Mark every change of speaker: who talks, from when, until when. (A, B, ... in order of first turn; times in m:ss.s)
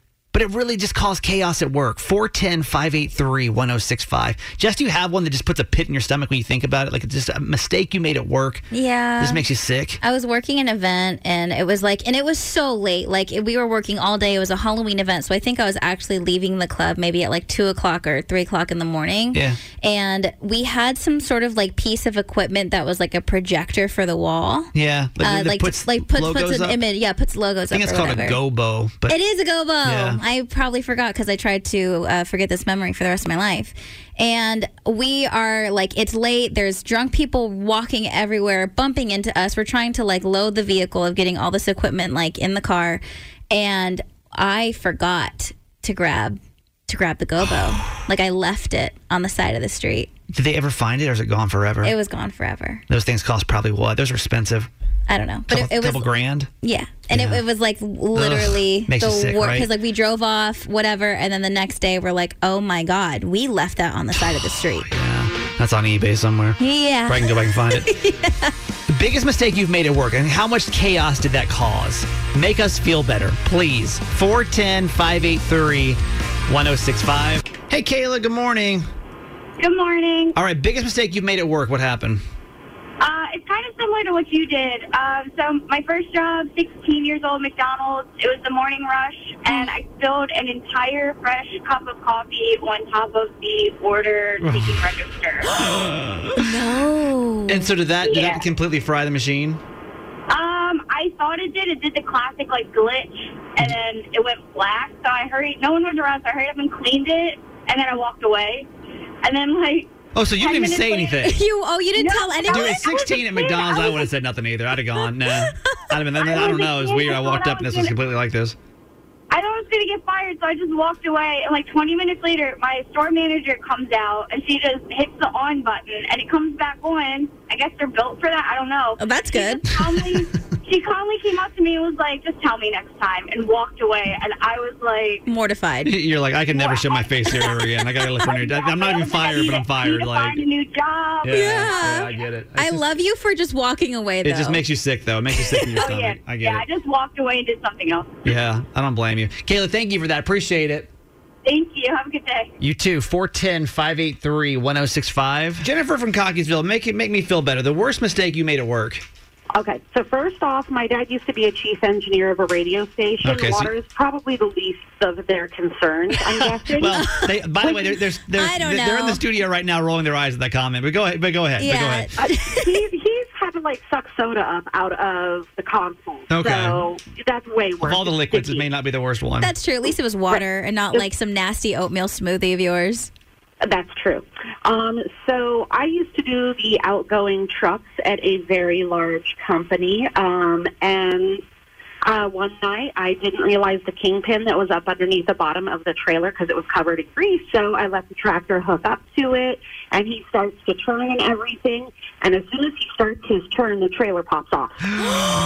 0:00.3-0:08.7 A
0:08.7-0:09.4 B
0:09.2-0:10.0 A
0:10.0-0:28.4 B
0:19.3-0:19.6 A
0:24.7-0:26.8 A
0:27.7-0:29.2 A
0:29.1-0:50.1 B
0:29.8-0:30.2 A
0:50.3-0:51.9 A
0:51.8-0:52.8 B
0:52.9-0:54.7 A
0:55.1-0:56.1 B
0:55.5-0:56.5 A
0:56.6-1:04.9 B
0:57.1-0:57.4 A
0:58.1-0:59.7 A
1:04.2-1:07.9 A
1:06.6-1:08.5 B
1:08.9-1:18.9 A
1:19.6-1:20.4 C
1:20.3-1:22.2 A
1:23.0-1:35.5 C
1:29.5-1:29.7 B
1:34.4-1:34.8 A
1:35.6-1:36.4 A
1:36.4-1:37.7 B
1:37.5-1:39.6 A
1:38.0-1:38.4 C
1:40.3-1:48.7 C
1:49.2-1:51.2 C
1:50.1-1:51.4 A
1:51.2-1:52.8 B
1:51.9-1:54.1 C
1:52.5-1:58.6 A
1:56.2-1:57.9 C
1:59.3-2:15.2 C
2:09.0-2:09.7 B
2:15.3-2:15.9 B
2:15.8-2:20.4 A
2:16.5-2:22.1 C
2:21.2-2:22.9 A
2:21.3-2:24.6 B
2:24.2-2:26.6 A
2:25.7-2:28.3 C
2:28.2-2:30.9 A
2:31.4-2:32.5 C
2:32.6-2:39.0 A
2:39.5-2:47.0 D
2:43.2-2:43.7 A
2:46.3-2:52.1 A
2:46.9-2:47.7 B
2:48.3-2:49.2 B
2:51.6-2:52.8 B
2:52.2-2:58.6 D
2:56.3-2:56.8 A
2:57.8-2:59.5 A
2:59.4-3:03.1 B
3:00.3-3:01.1 D
3:03.6-3:11.4 D
3:12.0-3:25.1 D